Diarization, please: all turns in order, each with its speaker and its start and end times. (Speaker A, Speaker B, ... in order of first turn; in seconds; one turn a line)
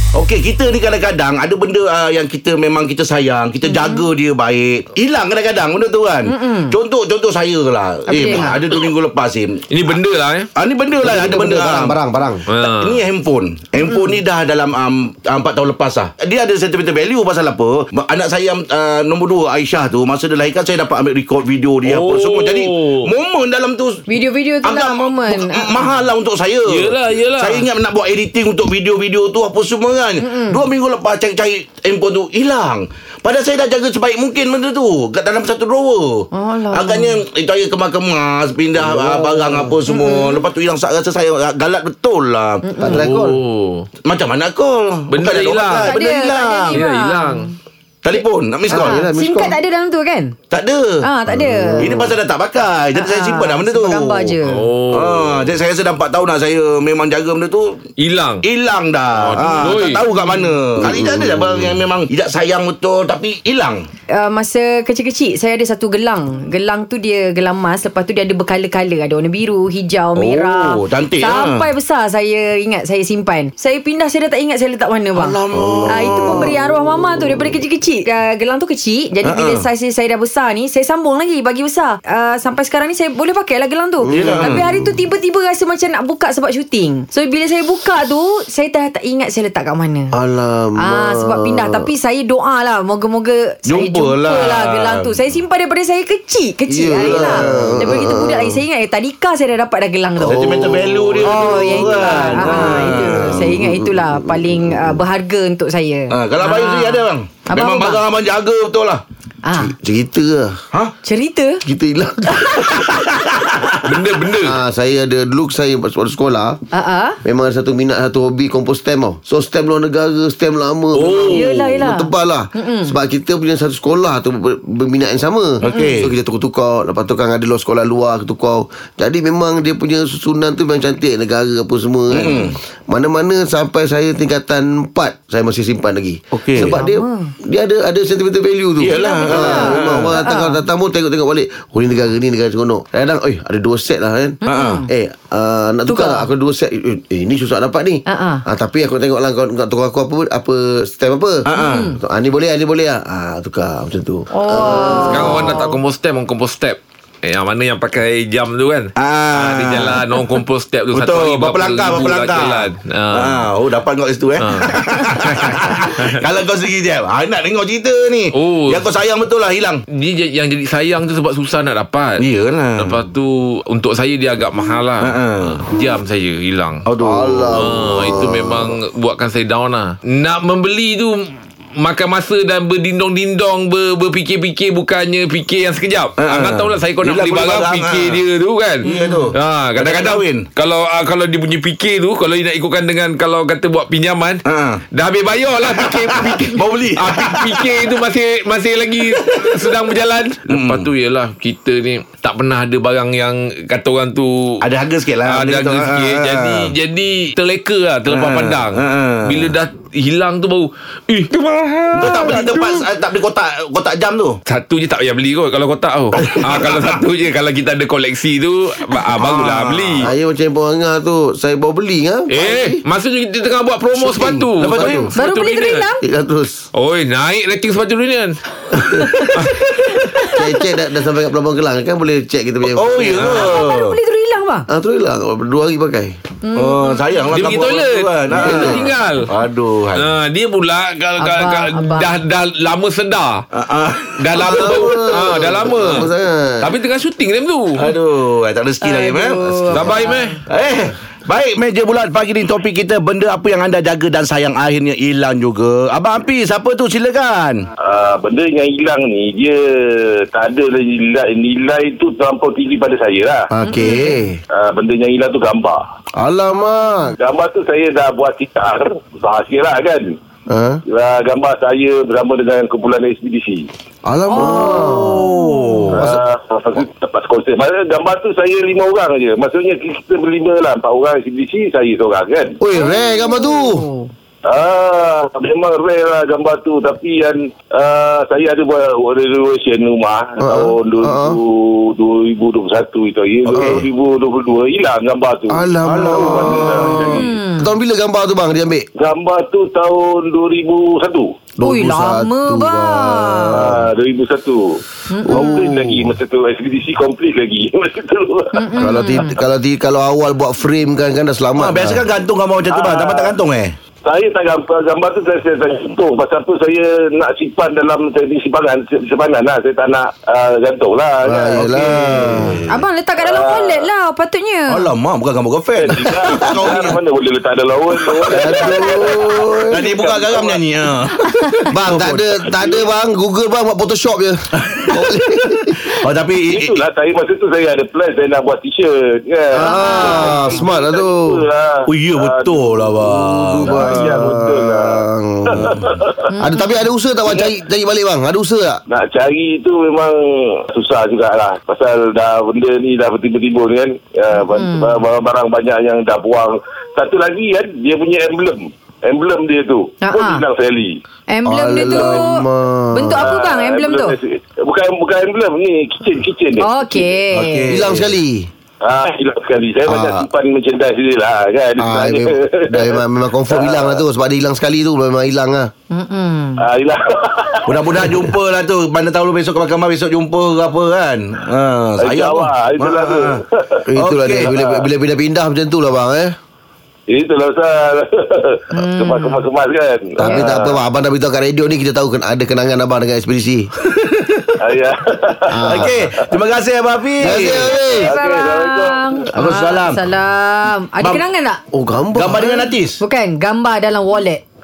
Speaker A: 0.1-9.7
Speaker B: 3.7-4.0
Speaker B: 6.3-6.8
Speaker B: 8.1-8.6
Speaker C: 9.7-10.5
Speaker A: 10.6-12.0
Speaker D: 11.0-12.4
Speaker C: 12.5-13.0
Speaker A: 12.6-24.1
Speaker C: 21.9-23.1
Speaker B: 24.1-25.9
Speaker A: 24.6-42.7
Speaker C: 26.7-27.7
Speaker B: 30.2-30.6
Speaker B: 36.3-37.2
Speaker D: 38.8-39.8
Speaker B: 39.9-40.5
Speaker B: 42.6-43.0
Speaker D: 42.8-43.4
Speaker C: 42.9-43.9
Speaker A: 44.0-46.8
Speaker C: 45.1-45.9
Speaker B: 45.8-47.5
Speaker C: 46.7-47.5
Speaker A: 48.0-49.0
Speaker D: 48.7-49.6
Speaker B: 48.7-50.4
Speaker A: 50.5-51.0
Speaker B: 51.0-52.0
Speaker D: 51.3-52.1
Speaker A: 51.8-54.4
Speaker B: 53.0-54.6
Speaker C: 54.4-55.5
Speaker A: 54.9-57.8
Speaker C: 58.0-58.4
Speaker A: 58.4-63.9
Speaker C: 59.2-60.0
Speaker B: 60.1-60.5
Speaker D: 60.8-61.8
Speaker B: 64.1-75.4
Speaker A: 70.2-71.7
Speaker A: 75.2-76.5
Speaker D: 75.5-76.5
Speaker B: 75.9-90.2
Speaker A: 79.2-79.7
Speaker D: 84.1-84.9
Speaker A: 84.1-84.6
Speaker D: 90.1-91.8
Speaker B: 90.8-100.6
Speaker A: 93.7-95.2
Speaker D: 96.7-98.6
Speaker A: 96.9-97.7
Speaker A: 100.2-103.4
Speaker D: 100.3-105.0
Speaker B: 101.2-108.0
Speaker A: 106.1-109.0
Speaker B: 109.5-109.7
Speaker D: 109.5-110.6
Speaker B: 111.0-111.6
Speaker D: 111.6-112.7
Speaker A: 112.7-113.8
Speaker C: 113.8-114.6
Speaker D: 114.4-116.6
Speaker B: 116.7-117.2
Speaker D: 117.2-151.4
Speaker C: 121.0-121.5
Speaker B: 121.3-123.0
Speaker A: 125.6-126.1
Speaker B: 125.7-125.9
Speaker A: 132.1-132.5
Speaker A: 136.3-136.8
Speaker B: 136.6-137.3
Speaker A: 138.8-140.2
Speaker B: 138.9-140.6
Speaker A: 144.4-144.8
Speaker B: 144.4-144.9
Speaker B: 145.9-146.3
Speaker B: 148.1-148.4
Speaker A: 151.5-151.9
Speaker B: 151.5-152.0
Speaker D: 152.0-155.7
Speaker B: 154.3-155.4
Speaker C: 155.1-163.5
Speaker A: 159.0-160.3
Speaker A: 160.9-169.8
Speaker C: 164.4-166.2
Speaker C: 168.3-168.9
Speaker C: 169.9-172.2
Speaker A: 172.2-173.0
Speaker C: 172.8-176.8
Speaker A: 175.0-175.6
Speaker A: 176.9-177.6
Speaker D: 177.0-178.8
Speaker C: 177.6-194.4
Speaker A: 186.2-188.2
Speaker A: 188.8-190.5
Speaker A: 194.5-194.8
Speaker C: 194.9-204.6
Speaker A: 195.7-197.7
Speaker A: 199.1-199.6
Speaker A: 200.5-200.9
Speaker A: 204.6-206.7
Speaker C: 205.3-212.5
Speaker A: 208.1-209.5
Speaker A: 211.9-214.4
Speaker C: 214.5-220.1
Speaker A: 216.2-216.9
Speaker A: 219.1-220.1
Speaker D: 220.0-222.8
Speaker C: 222.3-225.9
Speaker D: 224.0-225.1
Speaker A: 224.6-225.1
Speaker B: 225.2-226.0
Speaker D: 226.0-226.6
Speaker C: 226.8-228.4
Speaker D: 228.8-229.1
Speaker B: 229.0-230.4
Speaker C: 229.3-229.6
Speaker D: 230.3-233.3
Speaker A: 232.7-234.0
Speaker B: 233.3-234.7
Speaker D: 234.7-236.2
Speaker B: 236.4-237.0
Speaker A: 236.5-240.1
Speaker C: 237.3-239.3
Speaker D: 238.3-238.9
Speaker C: 239.9-243.4
Speaker B: 241.2-242.1
Speaker A: 243.5-246.1
Speaker C: 244.2-246.1
Speaker D: 244.4-246.7
Speaker C: 246.6-247.8
Speaker A: 247.8-257.7
Speaker B: 248.8-250.3
Speaker C: 249.7-250.4
Speaker E: 257.8-263.5
Speaker D: 263.5-264.4
Speaker B: 263.7-264.2
Speaker E: 264.5-265.8
Speaker D: 266.2-267.1
Speaker E: 267.2-270.2
Speaker D: 270.5-270.8
Speaker E: 270.9-273.7
Speaker D: 274.1-275.3
Speaker B: 274.3-275.9
Speaker A: 274.8-276.1
Speaker D: 275.9-276.2
Speaker E: 275.9-282.6
Speaker D: 282.6-283.9
Speaker B: 282.8-284.1
Speaker E: 284.4-297.3
Speaker D: 290.4-291.4
Speaker A: 293.5-293.9
Speaker D: 293.5-293.9
Speaker D: 295.5-298.9
Speaker A: 295.9-297.1
Speaker B: 297.1-297.7
Speaker E: 299.0-301.4
Speaker D: 301.6-303.9
Speaker B: 301.6-303.5
Speaker E: 303.6-304.8
Speaker B: 305.1-305.7
Speaker D: 305.3-306.1
Speaker E: 305.4-308.7
Speaker B: 308.5-309.3
Speaker D: 308.8-312.0
Speaker A: 311.6-313.7
Speaker E: 312.7-313.4
Speaker E: 314.0-322.2
Speaker D: 321.2-322.6
Speaker A: 321.6-322.8
Speaker B: 322.7-324.9
Speaker E: 323.2-323.9
Speaker A: 324.7-327.0
Speaker E: 325.8-330.6
Speaker A: 328.0-332.8
Speaker D: 328.3-330.0
Speaker D: 331.7-335.8
Speaker A: 334.6-336.8
Speaker E: 336.5-342.9
Speaker D: 339.6-341.4
Speaker B: 339.6-340.5
Speaker A: 341.9-344.1
Speaker D: 343.0-348.8
Speaker E: 343.6-346.2
Speaker A: 345.6-345.9
Speaker B: 346.3-346.9
Speaker E: 348.9-361.0
Speaker B: 354.4-355.0
Speaker B: 360.0-360.4
Speaker B: 361.3-364.2
Speaker D: 361.4-363.2
Speaker E: 363.2-367.1
Speaker B: 366.6-367.7
Speaker A: 367.3-368.1
Speaker D: 367.7-368.5
Speaker E: 368.8-374.0
Speaker D: 369.9-370.3
Speaker D: 371.8-375.7
Speaker B: 375.9-376.6
Speaker E: 376.6-378.0
Speaker A: 377.7-383.4
Speaker E: 382.0-383.9
Speaker D: 383.9-386.4
Speaker A: 384.0-384.6
Speaker E: 387.1-390.8
Speaker B: 388.7-389.4
Speaker D: 390.2-393.7
Speaker E: 394.6-395.8
Speaker D: 395.5-396.0
Speaker A: 395.6-397.7
Speaker D: 397.2-398.1
Speaker B: 397.5-401.6
Speaker E: 398.0-399.3
Speaker A: 399.4-400.0
Speaker A: 401.0-401.2
Speaker D: 401.7-402.6
Speaker A: 402.1-403.0
Speaker B: 403.0-404.4